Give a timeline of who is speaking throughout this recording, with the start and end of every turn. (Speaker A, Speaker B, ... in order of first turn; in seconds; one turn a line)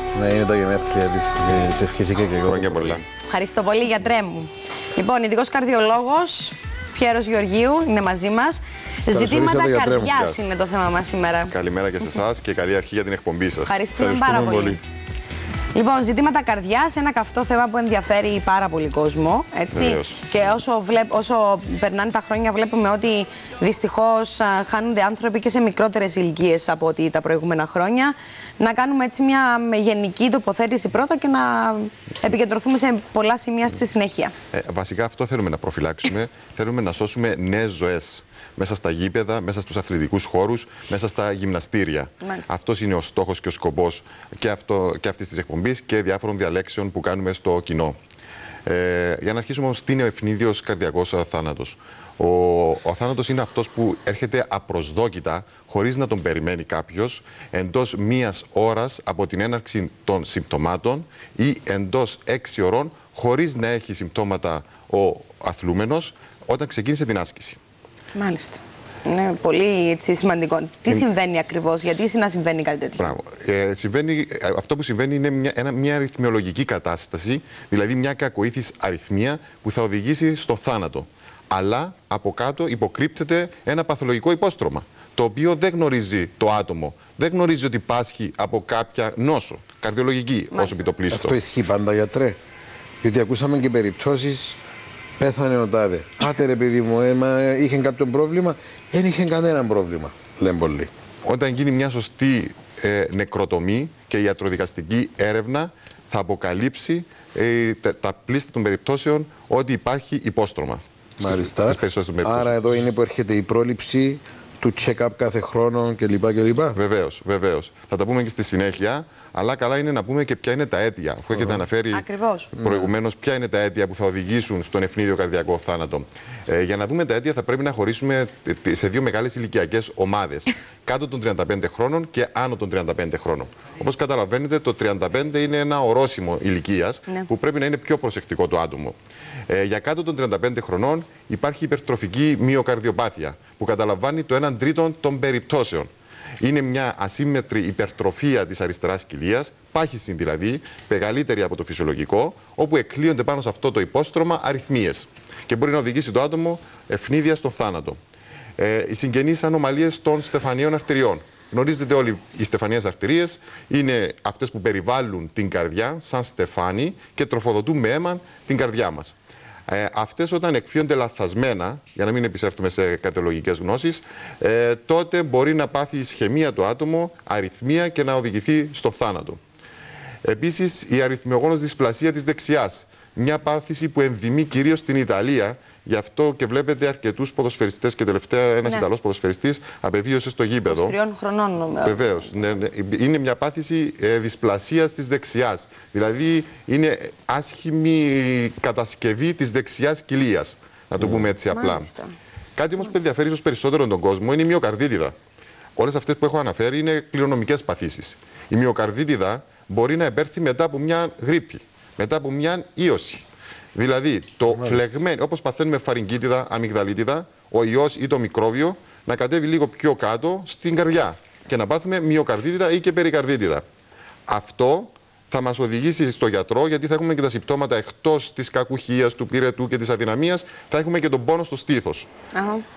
Speaker A: 0.1-3.0
Speaker B: 2.4-3.0
Speaker C: 3.3-11.5
Speaker A: 9.1-10.2
Speaker B: 10.0-10.5
Speaker B: 11.5-13.8
Speaker C: 13.7-14.8
Speaker A: 14.0-14.8
Speaker C: 15.7-34.3
Speaker B: 19.7-20.2
Speaker B: 34.5-48.0
Speaker B: 48.6-67.6
Speaker C: 68.1-73.1
Speaker B: 73.0-91.4
Speaker A: 91.1-92.4
Speaker A: 93.0-94.6
Speaker A: 95.2-100.9
Speaker B: 101.2-112.5
Speaker A: 111.2-116.8
Speaker B: 116.7-122.0
Speaker A: 121.3-121.6
Speaker C: 121.9-122.5
Speaker A: 122.6-122.9
Speaker B: 122.6-138.9
Speaker B: 139.5-158.0
Speaker B: 158.6-169.2
Speaker B: 169.7-179.4
Speaker B: 180.2-191.0
Speaker C: 190.7-192.0
Speaker B: 191.8-201.9
Speaker A: 201.0-201.3
Speaker C: 201.5-202.1
Speaker B: 202.6-205.1
Speaker B: 205.8-223.6
Speaker A: 214.5-214.8
Speaker B: 224.3-232.1
Speaker C: 232.3-232.6